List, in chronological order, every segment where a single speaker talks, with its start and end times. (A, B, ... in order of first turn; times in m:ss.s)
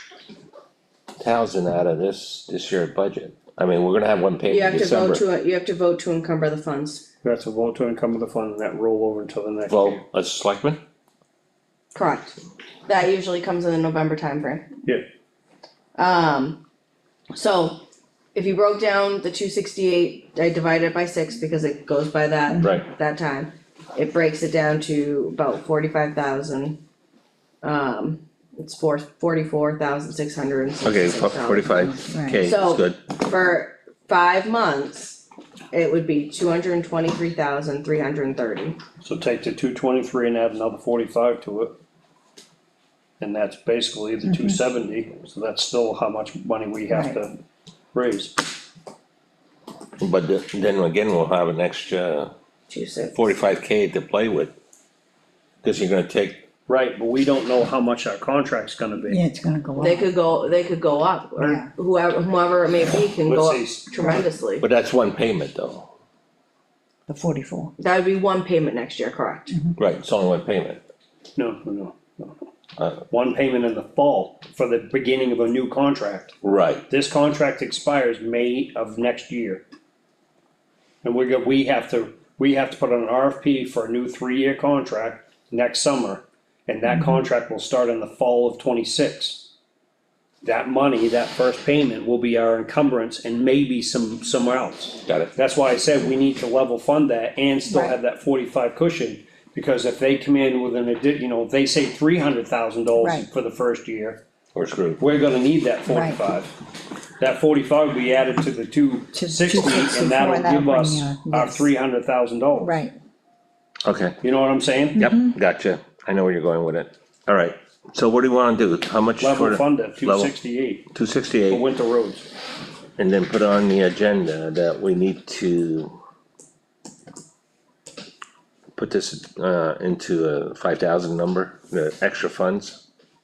0:01.2-0:05.2 A
0:04.5-0:07.1 B
0:07.2-0:10.0 C
0:09.7-0:10.8 A
0:11.9-0:14.6 B
0:16.0-0:16.6 B
0:17.3-0:17.8 B
0:18.3-0:26.8 B
0:22.6-0:22.8 A
0:27.6-0:31.7 B
0:30.8-0:33.0 A
0:31.7-0:32.4 D
0:32.4-0:38.8 B
0:39.0-0:41.8 C
0:43.2-0:47.4 C
0:44.3-0:44.5 D
0:46.9-0:47.2 D
0:47.9-0:48.4 C
0:50.0-0:52.3 A
0:52.7-0:53.3 B
0:53.1-0:54.5 A
0:55.6-0:56.4 A
0:56.7-0:59.2 C
0:59.1-1:00.1 D
0:59.8-1:04.6 B
1:01.4-1:01.7 D
1:03.2-1:04.2 C
1:04.6-1:05.9 A
1:07.1-1:07.7 D
1:07.8-1:09.5 B
1:09.5-1:09.8 D
1:09.8-1:10.8 A
1:11.4-1:12.4 C
1:13.1-1:16.3 C
1:16.4-1:16.8 A
1:16.9-1:19.6 C
1:21.0-1:29.5 C
1:30.4-1:44.2 C
1:35.0-1:35.3 A
1:43.0-1:43.3 D
1:44.5-1:45.0 A
1:45.0-1:46.6 C
1:45.9-1:46.2 D
1:47.2-1:52.8 C
1:49.1-1:51.7 D
1:52.6-1:52.9 D
1:53.8-1:54.2 A
1:54.2-1:55.1 C
1:55.0-2:00.3 A
1:55.0-1:55.2 D
1:59.2-2:00.9 C
2:00.9-2:01.6 A
2:01.5-2:02.3 C
2:03.0-2:05.9 A
2:08.8-2:12.8 A